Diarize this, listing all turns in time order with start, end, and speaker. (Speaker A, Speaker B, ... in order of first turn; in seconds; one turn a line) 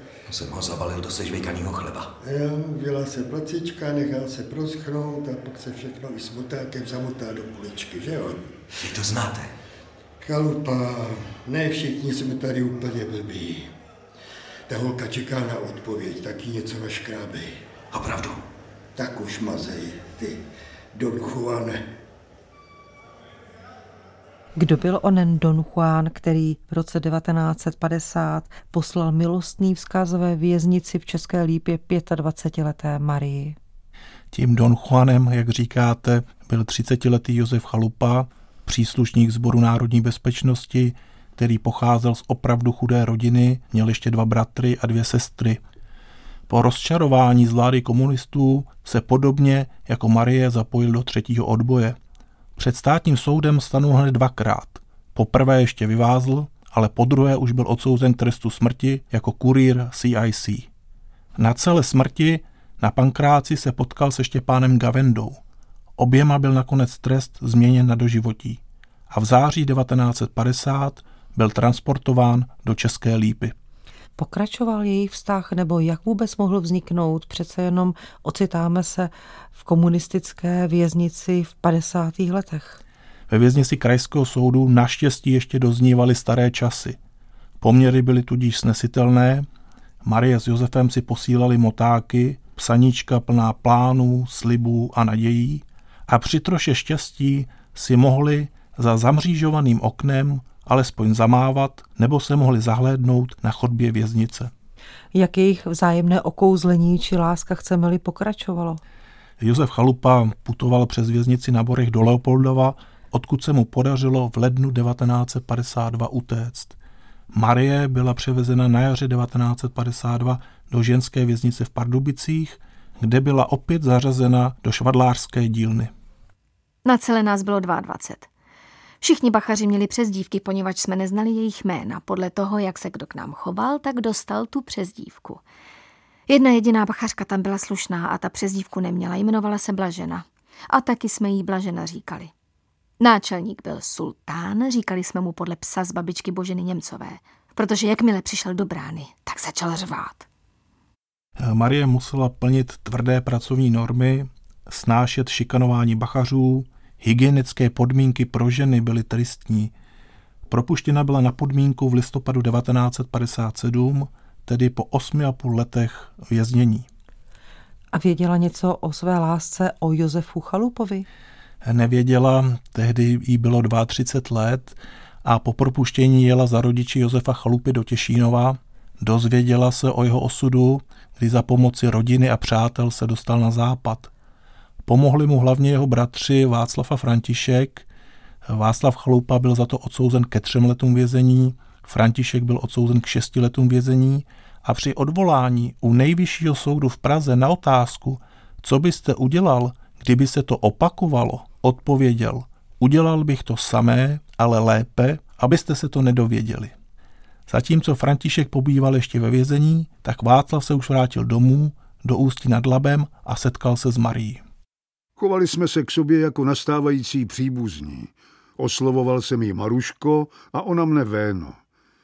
Speaker A: 0.3-2.1
Speaker B: 2.2-8.6
Speaker A: 8.8-9.5
Speaker B: 10.2-13.7
Speaker B: 14.7-17.5
Speaker A: 17.9-18.4
Speaker B: 18.9-20.4
Speaker B: 20.9-21.8
Speaker C: 24.6-33.6
Speaker D: 34.3-45.6
Speaker D: 46.5-52.0
Speaker D: 52.5-60.7
Speaker D: 61.4-65.4
Speaker D: 66.0-73.5
Speaker C: 74.2-82.8
Speaker D: 83.3-87.0
Speaker D: 87.6-89.5
Speaker D: 90.0-104.5
Speaker C: 105.1-108.8
Speaker D: 109.4-116.8
Speaker D: 117.3-125.9
Speaker E: 126.8-128.3
Speaker E: 129.0-135.4
Speaker E: 136.3-142.3
Speaker E: 143.0-150.2
Speaker D: 151.4-159.7
Speaker D: 160.5-166.9
Speaker C: 167.9-171.1
Speaker D: 171.6-184.1
Speaker D: 184.8-187.9
Speaker D: 188.5-206.7
Speaker D: 207.5-214.4
Speaker F: 215.2-221.6